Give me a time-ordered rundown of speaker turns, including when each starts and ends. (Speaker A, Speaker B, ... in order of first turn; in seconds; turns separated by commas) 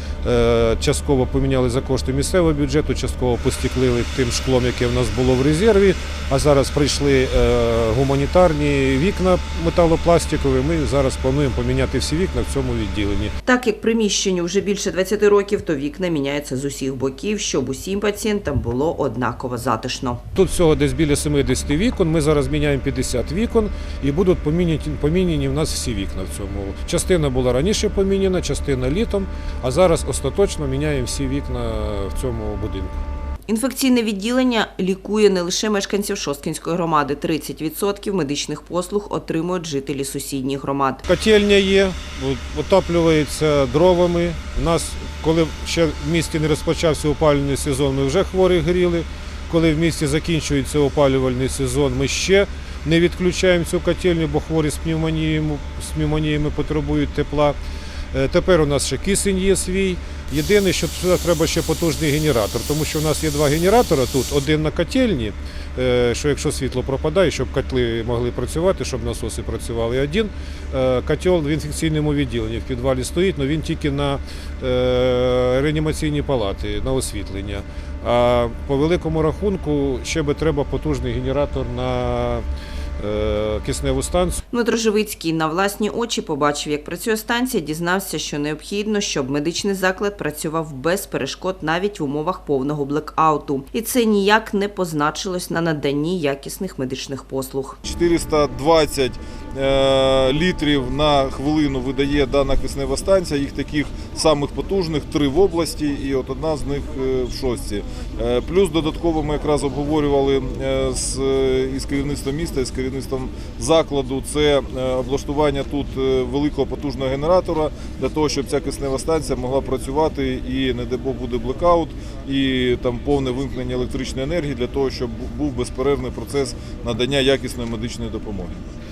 Speaker A: 0.2-13.3, Speaker B: 13.4-20.2, Speaker A: 20.3-33.0, Speaker B: 33.5-41.0, Speaker A: 41.1-57.5, Speaker A: 58.1-82.4, Speaker A: 83.0-84.4, Speaker B: 84.5-97.8, Speaker C: 97.8-128.6